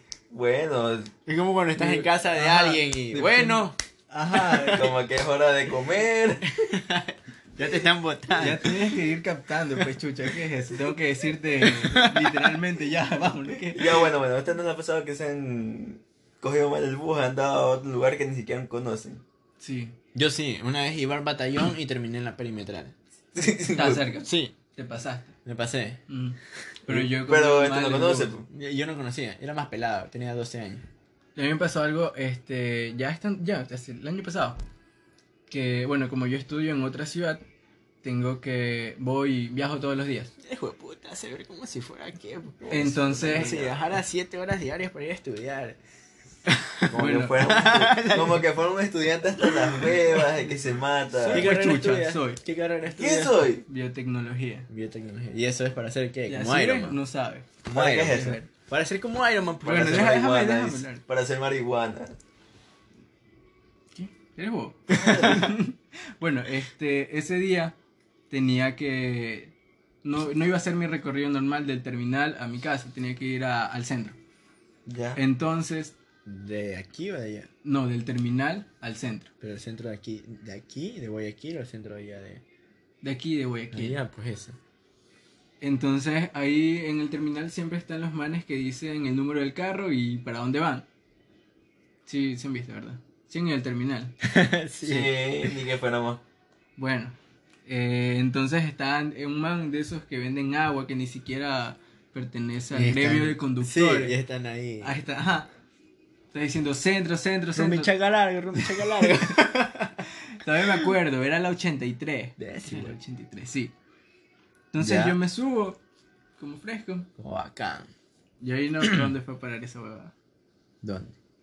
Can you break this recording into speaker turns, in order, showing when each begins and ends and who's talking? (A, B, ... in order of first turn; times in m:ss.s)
0:00.3-0:01.1 A
0:01.3-0:03.8 B
0:01.8-0:04.8 C
0:04.3-0:05.0 B
0:04.7-0:06.6 A
0:06.5-0:09.0 B
0:08.4-0:14.1 C
0:11.6-0:12.6 B
0:13.7-0:19.2 A
0:19.6-0:20.0 C
0:20.1-0:23.0 B
0:23.3-0:24.0 A
0:23.7-0:25.4 C
0:24.2-0:24.6 B
0:25.4-0:26.0 B
0:26.1-0:28.3 C
0:27.1-0:28.5 A
0:28.5-0:30.9 B
0:31.4-0:34.6 C
0:35.5-0:37.4 C
0:38.0-0:40.3 C
0:40.4-0:45.8 B
0:42.6-0:44.0 A
0:42.7-0:43.5 C
0:46.4-0:48.6 B
0:46.9-0:51.5 A
0:46.9-0:48.1 C
0:49.2-0:50.3 B
0:51.1-0:52.4 C
0:51.2-0:53.5 B
0:53.0-0:53.6 A
0:53.7-0:54.7 C
0:54.7-0:57.0 B
0:56.3-0:58.5 C
0:57.6-1:00.6 B
0:57.7-0:58.4 A
0:59.6-1:02.2 A
0:59.8-1:01.0 C
1:03.9-1:07.8 C
1:04.9-1:05.4 B
1:04.9-1:05.4 A
1:08.3-1:14.2 C
1:14.9-1:15.2 A
1:15.2-1:16.0 C
1:16.3-1:17.5 B
1:17.6-1:19.3 C
1:19.4-1:22.4 B
1:23.0-1:24.0 C
1:23.7-1:24.6 B
1:25.6-1:30.9 C
1:32.1-1:34.1 C
1:34.2-1:35.6 B
1:34.8-1:36.2 A
1:36.8-1:44.2 C
1:42.7-1:45.0 B
1:44.8-1:45.5 C
1:46.3-1:47.9 C
1:47.5-1:50.1 B
1:48.6-1:49.2 C
1:50.2-1:53.7 C
1:52.4-1:53.0 B
1:54.7-1:55.8 C
1:54.8-1:55.2 B
1:56.4-1:57.1 C
1:57.2-1:57.9 B
1:58.4-2:00.1 C
2:00.8-2:01.2 B